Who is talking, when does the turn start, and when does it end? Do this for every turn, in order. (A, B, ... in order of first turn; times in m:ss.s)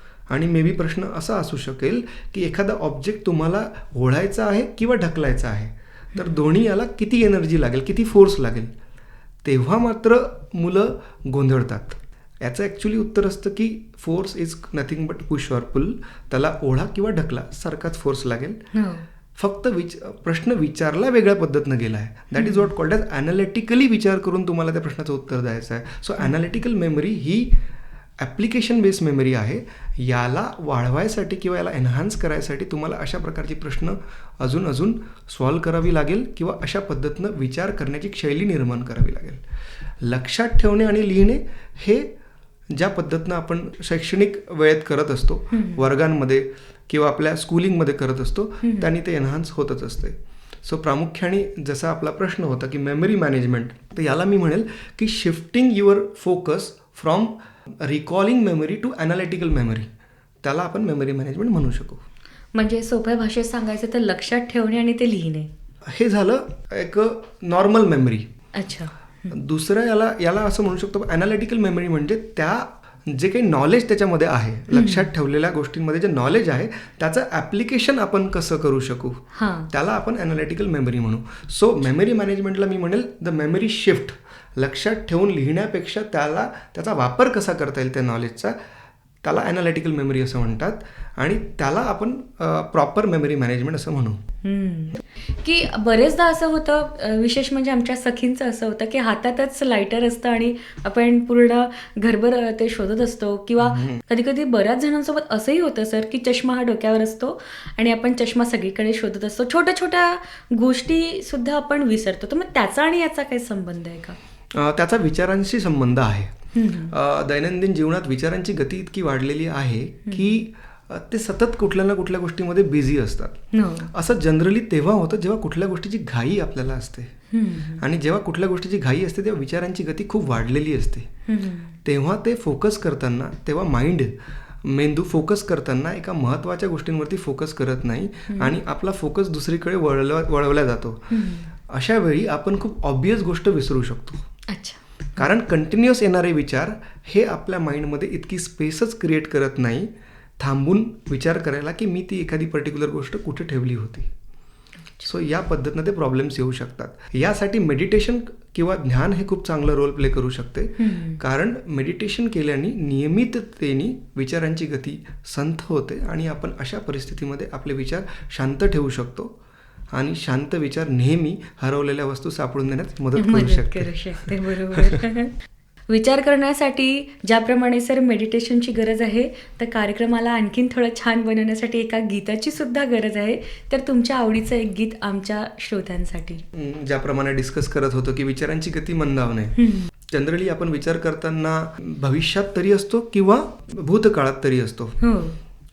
0:00.3-0:08.7 A
0:09.4-0:18.6 A
0:18.7-0:19.1 B
0:19.4-0:27.6 A
0:22.4-0:22.7 B
0:28.2-0:39.4 A
0:40.0-0:42.1 A
0:42.7-0:59.9 A
0:45.5-0:45.8 B
0:48.6-0:48.9 B
1:00.4-1:02.0 A
1:02.5-1:05.5 B
1:05.9-1:08.3 A
1:08.5-1:09.3 B
1:09.3-1:28.6 A
1:14.7-1:15.1 B
1:19.4-1:19.7 B
1:29.2-1:34.2 A
1:34.4-1:54.2 B
1:43.6-1:44.0 A
1:54.6-1:56.4 A
1:56.5-1:56.9 B
1:56.9-2:07.1 A
2:00.1-2:00.4 B
2:03.5-2:03.9 B
2:07.3-2:07.8 B
2:07.8-2:11.1 A
2:11.3-2:11.8 B
2:11.8-2:24.2 A
2:18.3-2:18.6 B
2:21.1-2:21.5 B
2:24.5-2:25.2 B
2:25.2-2:34.1 A
2:35.0-2:49.4 A
2:40.8-2:41.2 B
2:49.9-2:55.0 A
2:53.2-2:55.4 B
2:55.9-3:06.4 B
3:06.5-3:15.0 A
3:09.6-3:09.9 B
3:15.0-3:15.4 B